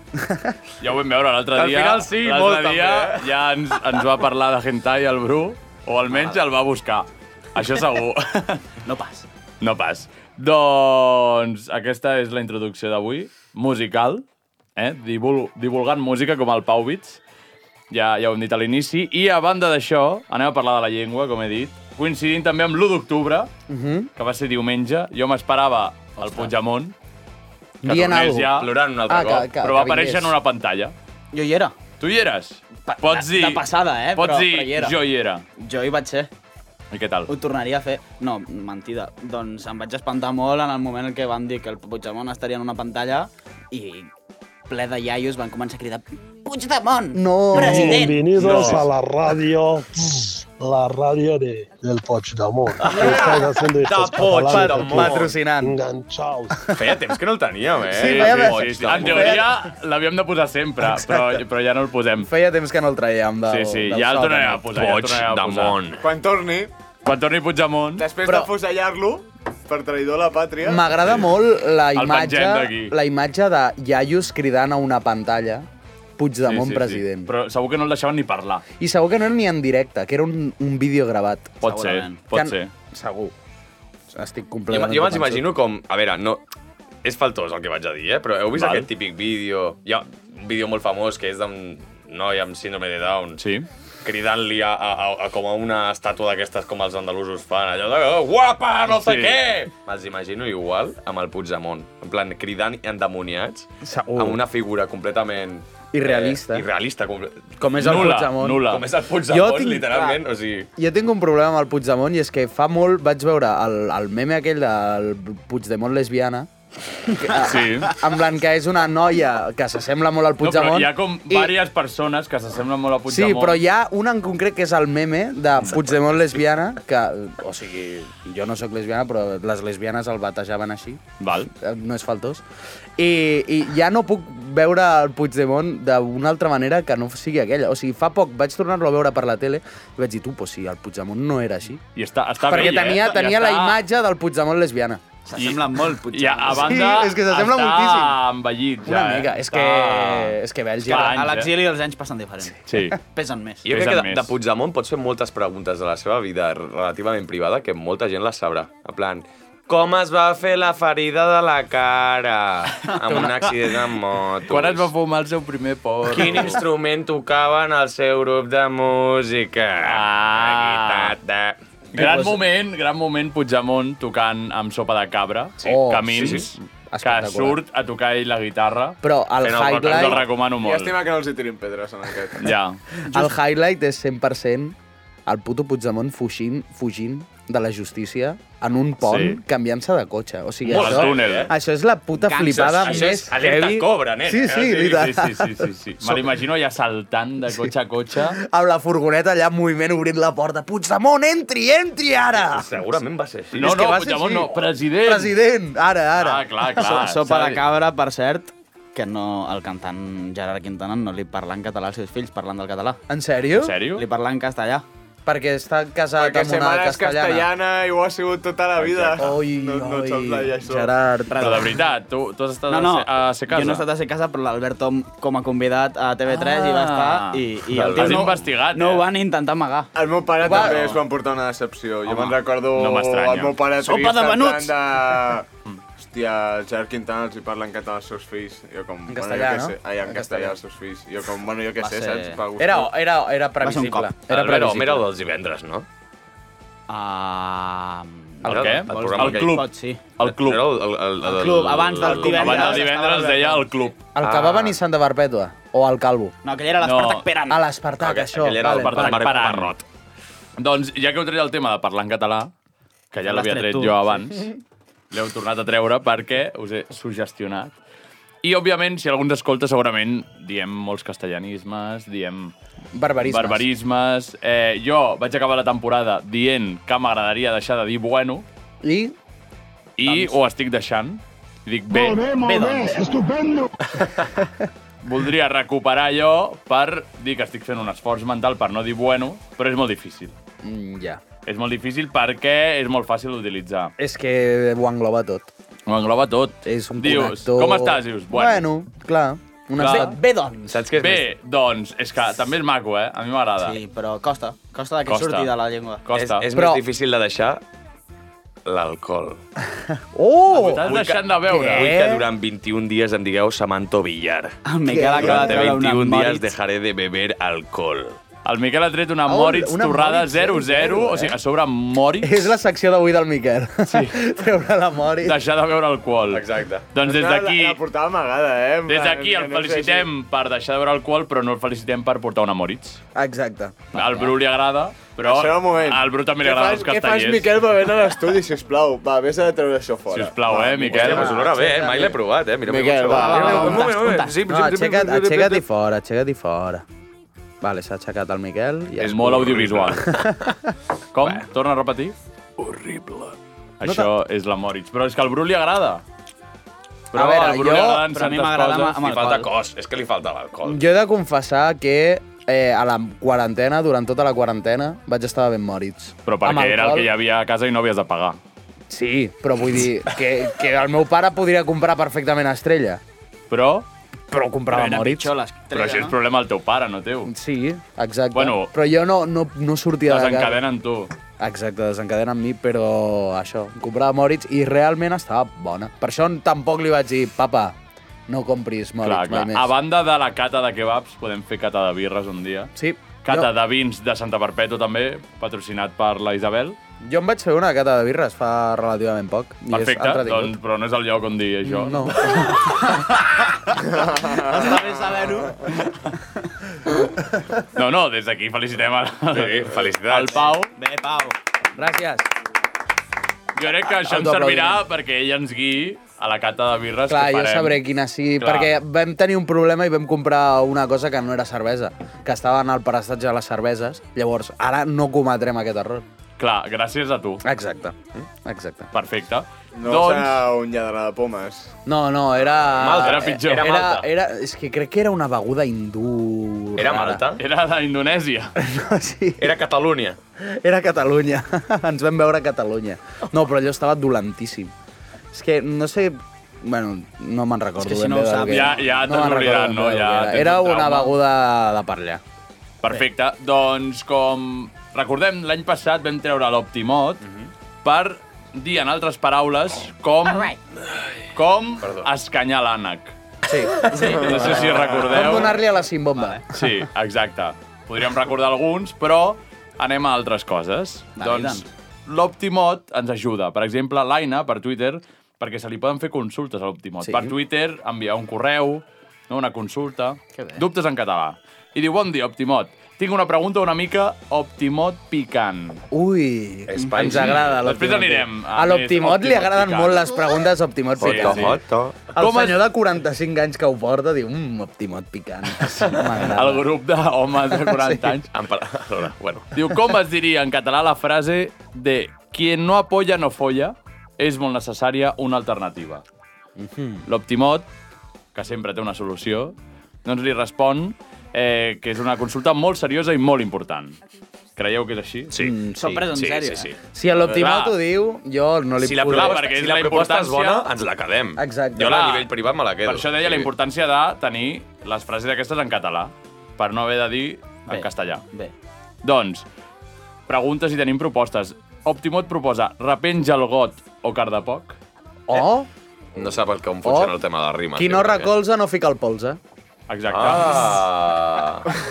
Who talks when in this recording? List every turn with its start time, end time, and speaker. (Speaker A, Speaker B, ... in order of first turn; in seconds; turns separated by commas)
Speaker A: 0.1-0.6, Speaker B: 0.8-8.6, Speaker C: 1.6-3.3, Speaker D: 8.8-9.3, Speaker B: 9.6-14.2, Speaker B: 14.8-17.2, Speaker B: 17.9-23.5, Speaker A: 23.7-24.1, Speaker B: 24.2-26.9, Speaker D: 26.2-26.5, Speaker B: 27.8-28.7, Speaker A: 27.8-30.3, Speaker C: 28.6-29.5, Speaker B: 29.6-30.9, Speaker D: 31.3-31.7, Speaker B: 32.0-35.4, Speaker D: 32.9-35.0, Speaker D: 35.6-36.3, Speaker B: 36.9-37.3, Speaker D: 37.3-44.1, Speaker D: 44.7-48.9, Speaker A: 47.1-48.8, Speaker E: 47.5-56.8, Speaker C: 48.4-48.7, Speaker C: 52.8-55.3, Speaker A: 52.9-53.3, Speaker A: 54.5-55.8, Speaker A: 56.6-56.9, Speaker C: 56.7-59.4, Speaker A: 57.9-59.6, Speaker B: 58.0-62.3, Speaker A: 60.8-61.4, Speaker A: 62.2-64.7, Speaker B: 63.5-65.8, Speaker C: 64.7-66.0, Speaker F: 66.0-66.7, Speaker B: 67.0-68.1, Speaker F: 68.0-71.0, Speaker A: 68.2-68.5, Speaker A: 70.7-75.7, Speaker B: 72.0-72.9, Speaker A: 76.2-77.3, Speaker B: 76.4-78.6, Speaker A: 78.8-81.6, Speaker B: 81.6-82.7, Speaker D: 81.6-82.2, Speaker A: 82.3-83.3, Speaker A: 84.1-85.6, Speaker C: 84.7-86.4, Speaker C: 87.0-93.4, Speaker B: 88.6-88.9, Speaker B: 93.4-93.7, Speaker C: 94.0-107.6, Speaker B: 98.9-99.4, Speaker A: 103.8-104.4, Speaker A: 105.9-106.7, Speaker A: 107.6-108.7, Speaker B: 107.8-108.8, Speaker C: 108.6-110.7, Speaker A: 109.3-110.1, Speaker A: 110.8-116.5, Speaker A: 117.0-121.5, Speaker B: 117.4-117.9, Speaker B: 120.4-123.6, Speaker A: 123.1-132.4, Speaker B: 131.2-131.5, Speaker A: 133.0-141.8, Speaker B: 141.9-143.8, Speaker A: 142.4-145.0, Speaker D: 142.5-142.9, Speaker D: 145.3-146.9, Speaker B: 146.1-151.6, Speaker A: 146.5-148.2, Speaker A: 148.8-151.2, Speaker D: 150.8-153.7, Speaker B: 152.7-153.0, Speaker C: 153.7-164.9, Speaker B: 153.7-154.3, Speaker B: 164.5-166.6, Speaker C: 166.1-171.6, Speaker B: 169.8-171.2, Speaker B: 171.9-179.0, Speaker D: 171.9-172.4, Speaker A: 175.6-177.6, Speaker C: 176.1-176.4, Speaker A: 179.0-180.2, Speaker C: 179.4-180.2, Speaker B: 179.8-181.0, Speaker F: 180.5-182.5, Speaker B: 182.4-182.8, Speaker A: 183.1-196.2, Speaker B: 189.0-189.4, Speaker B: 190.7-191.5, Speaker C: 190.7-191.5, Speaker D: 192.2-193.3, Speaker C: 192.4-195.0, Speaker B: 194.7-198.4, Speaker A: 198.2-202.8, Speaker C: 202.4-203.7, Speaker A: 203.5-206.8, Speaker B: 203.6-205.4, Speaker B: 206.2-207.6, Speaker D: 206.8-213.0, Speaker A: 213.1-213.8, Speaker B: 213.6-214.1, Speaker D: 214.0-214.8, Speaker A: 215.3-217.5, Speaker F: 216.2-220.9, Speaker C: 218.9-219.2, Speaker A: 219.2-221.6, Speaker D: 221.3-221.8, Speaker B: 221.4-223.9, Speaker D: 222.7-229.9, Speaker B: 226.3-229.1, Speaker C: 227.7-228.3, Speaker F: 229.9-235.5, Speaker A: 230.4-231.0, Speaker D: 230.6-230.9, Speaker D: 232.1-232.4, Speaker B: 232.8-233.6, Speaker D: 233.8-234.8, Speaker F: 236.0-242.9, Speaker A: 239.1-240.5, Speaker D: 241.8-242.4, Speaker A: 242.6-245.1, Speaker D: 243.6-244.1, Speaker C: 244.3-245.9, Speaker D: 246.9-250.0, Speaker A: 248.4-248.9, Speaker B: 248.5-250.6, Speaker C: 248.5-249.6, Speaker C: 250.2-252.8, Speaker D: 251.2-253.7, Speaker B: 252.0-254.0, Speaker A: 254.2-256.4, Speaker C: 254.2-254.8, Speaker D: 256.4-257.6, Speaker B: 256.8-257.3, Speaker A: 257.5-259.2, Speaker C: 258.0-259.8, Speaker B: 258.8-259.7, Speaker B: 260.6-262.5, Speaker B: 263.1-264.5, Speaker D: 263.3-264.2, Speaker B: 265.1-267.8, Speaker B: 268.4-272.5, Speaker A: 272.9-273.7, Speaker B: 273.2-278.4, Speaker A: 278.8-279.2, Speaker B: 280.0-282.4, Speaker D: 282.4-283.1, Speaker B: 285.0-290.3, Speaker A: 290.6-291.2, Speaker B: 291.4-293.9, Speaker A: 294.0-295.5, Speaker B: 295.9-298.6, Speaker A: 296.6-300.8, Speaker B: 299.8-300.1, Speaker D: 299.8-300.6, Speaker C: 300.7-301.2, Speaker B: 300.9-303.8, Speaker D: 303.6-306.0, Speaker B: 305.1-305.5, Speaker B: 306.0-306.4, Speaker C: 306.1-307.6, Speaker A: 306.5-306.8, Speaker C: 308.7-309.4, Speaker A: 309.9-310.9, Speaker B: 310.5-311.9, Speaker C: 310.9-314.6, Speaker A: 311.5-312.3, Speaker D: 314.7-316.5, Speaker A: 314.9-315.7, Speaker C: 315.2-318.2, Speaker B: 318.4-322.5, Speaker A: 319.3-321.4, Speaker A: 322.2-325.4, Speaker B: 323.9-324.2, Speaker B: 325.2-327.8, Speaker C: 326.3-326.9, Speaker F: 327.0-330.1, Speaker B: 328.9-333.0, Speaker A: 333.1-333.9, Speaker B: 333.9-337.5, Speaker F: 335.2-341.4, Speaker B: 340.1-341.3, Speaker C: 340.9-345.6, Speaker A: 341.0-342.1, Speaker F: 342.7-343.8, Speaker D: 343.1-344.4, Speaker A: 343.4-343.8, Speaker A: 344.5-346.9, Speaker A: 347.6-350.6, Speaker B: 349.0-350.1, Speaker C: 349.0-350.3, Speaker B: 351.1-352.1, Speaker C: 352.6-353.3, Speaker B: 353.8-356.0, Speaker A: 353.8-354.1, Speaker B: 357.1-359.1, Speaker A: 357.1-358.1, Speaker D: 358.0-359.5, Speaker C: 359.1-360.8, Speaker A: 360.7-367.1, Speaker B: 366.3-368.4, Speaker A: 368.9-373.0, Speaker B: 373.5-373.9, Speaker A: 374.3-375.3, Speaker D: 374.7-376.1, Speaker B: 375.7-377.3, Speaker A: 377.3-380.6, Speaker B: 378.3-378.7, Speaker B: 380.1-381.1, Speaker A: 381.4-387.8, Speaker A: 388.3-389.7, Speaker B: 389.0-392.7, Speaker A: 392.8-393.5, Speaker B: 393.2-396.8, Speaker A: 397.0-400.6, Speaker B: 399.7-402.4, Speaker A: 401.6-403.2, Speaker D: 404.3-405.9, Speaker B: 407.8-410.7, Speaker C: 409.3-410.5, Speaker D: 410.7-411.4, Speaker A: 411.8-412.3, Speaker B: 413.6-417.8, Speaker A: 413.9-414.9, Speaker A: 417.1-426.0, Speaker B: 418.4-418.7, Speaker B: 426.4-427.4, Speaker A: 427.4-428.9, Speaker B: 428.9-430.4, Speaker F: 429.8-431.7, Speaker A: 431.9-437.2, Speaker C: 432.7-434.1, Speaker B: 433.0-433.7, Speaker C: 436.8-437.4, Speaker B: 437.4-438.6, Speaker A: 438.6-439.5, Speaker C: 439.4-440.2, Speaker A: 440.4-444.7, Speaker A: 445.3-452.2, Speaker D: 447.8-448.9, Speaker B: 448.4-451.2, Speaker B: 452.8-457.2, Speaker B: 457.8-460.5, Speaker B: 461.4-463.1, Speaker C: 461.8-462.1, Speaker A: 463.5-466.7, Speaker D: 463.9-464.7, Speaker B: 464.1-465.6, Speaker D: 466.1-466.4, Speaker B: 466.5-485.8, Speaker D: 471.2-471.7, Speaker A: 477.0-477.3, Speaker D: 480.4-480.6, Speaker A: 485.9-491.6, Speaker C: 486.7-487.6, Speaker B: 487.1-490.1, Speaker C: 491.0-492.0, Speaker B: 491.0-491.6, Speaker A: 492.1-496.7, Speaker B: 492.1-492.6, Speaker B: 495.8-498.3, Speaker A: 497.5-498.2, Speaker C: 498.3-499.5, Speaker B: 499.5-506.0, Speaker A: 506.6-507.1, Speaker B: 507.1-507.7, Speaker B: 508.3-514.0, Speaker B: 514.6-515.3, Speaker C: 515.3-515.6, Speaker A: 515.4-516.1, Speaker D: 515.8-516.7, Speaker C: 516.1-516.8, Speaker A: 516.9-519.4, Speaker B: 517.3-517.8, Speaker C: 518.8-523.5, Speaker B: 519.1-520.6, Speaker A: 521.4-522.1, Speaker B: 521.8-522.3, Speaker B: 522.9-528.2, Speaker D: 527.7-528.5, Speaker B: 529.0-529.5, Speaker B: 530.3-534.8, Speaker A: 535.3-535.7, Speaker C: 536.1-538.3, Speaker A: 536.8-537.1, Speaker A: 537.8-539.4, Speaker B: 539.9-540.7, Speaker C: 540.1-541.8